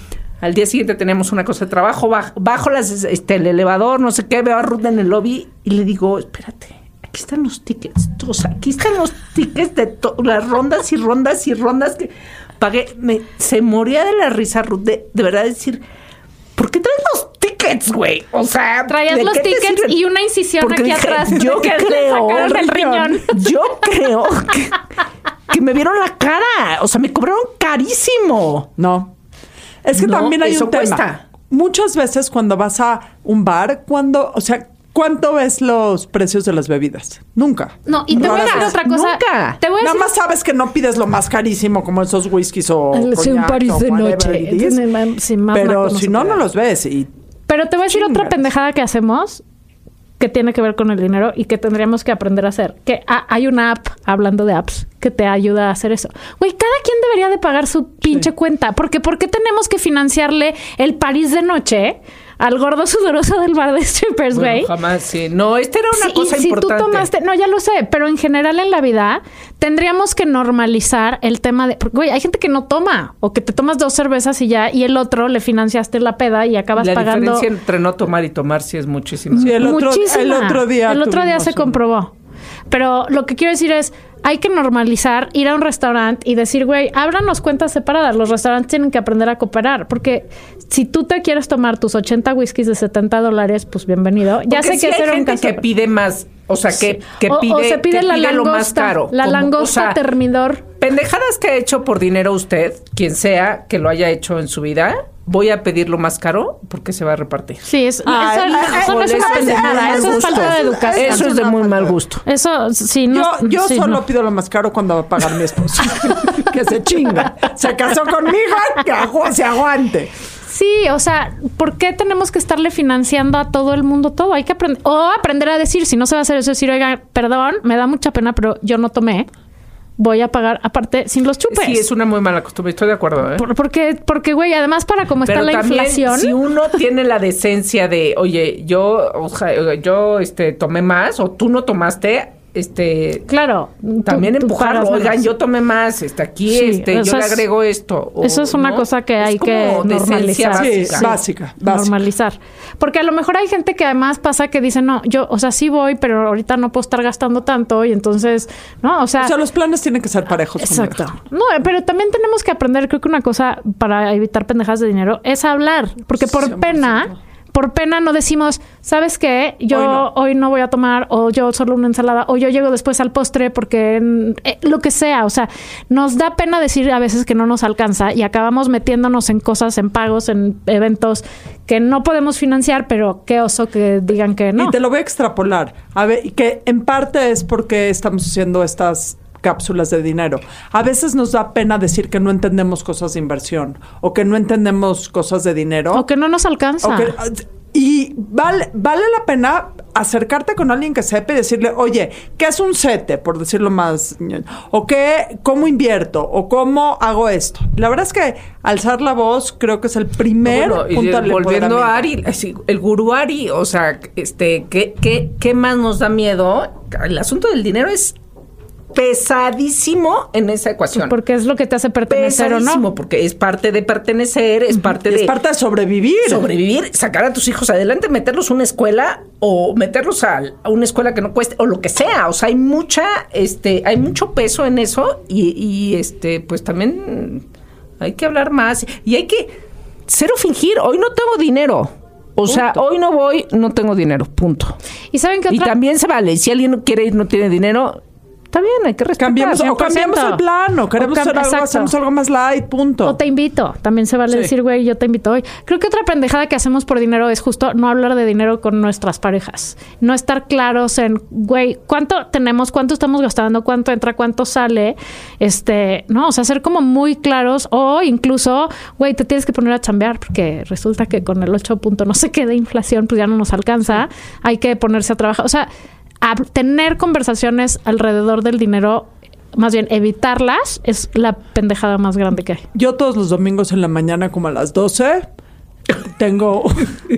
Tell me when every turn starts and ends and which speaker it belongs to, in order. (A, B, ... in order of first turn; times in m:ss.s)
0:00.4-0:15.8 A
0:16.6-0:20.0 A
0:18.9-0:23.5 B
0:20.6-0:24.8 A
0:22.4-0:23.2 C
0:25.5-0:28.7 A
0:28.8-0:29.1 C
0:29.8-0:38.8 C
0:30.0-0:31.2 A
0:37.9-0:40.1 B
0:38.1-0:39.6 A
0:39.8-0:44.8 C
0:42.9-0:46.4 B
0:45.5-0:47.1 C
0:47.5-0:49.4 B
0:47.9-0:48.4 C
0:50.2-1:04.7 B
1:04.3-1:07.1 A
1:05.9-1:17.4 B
1:16.8-1:19.6 A
1:19.4-1:21.8 C
1:19.4-1:22.1 B
1:22.7-1:35.6 B
1:34.5-1:40.0 A
1:36.9-1:40.6 B
1:40.8-1:47.6 A
1:47.6-1:51.3 B
1:48.1-1:52.0 C
1:48.5-1:52.2 A
1:52.2-1:54.0 B
1:53.1-2:00.1 C
2:00.4-2:09.3 B
2:10.0-2:11.8 B
2:11.5-2:13.4 A
2:13.4-2:16.4 B
2:15.3-2:23.3 A
2:23.3-2:25.3 B
2:24.1-2:31.1 A
2:26.5-2:27.4 B
2:28.2-2:39.3 B
2:30.6-2:32.0 C
2:39.2-2:41.1 C
2:40.6-3:04.7 B
2:46.2-2:47.2 C
2:49.7-2:50.1 C
3:04.6-3:16.0 C
3:15.9-3:17.1 B
3:16.8-3:32.1 C
3:30.4-3:38.2 A
3:38.9-3:41.2 A
3:40.9-3:42.8 B
3:42.1-3:45.3 A
3:45.0-3:46.4 C
3:46.2-3:57.4 A
3:58.0-3:59.5 A
4:00.1-4:04.8 A
4:02.5-4:02.8 C
4:05.1-4:05.7 B
4:05.5-4:08.0 A
4:08.5-4:09.7 A
4:09.2-4:13.2 C
4:09.5-4:10.4 B
4:11.0-4:11.9 B
4:13.0-4:35.7 B
4:36.2-4:42.6 B
4:42.7-4:45.3 C
4:45.9-4:47.0 C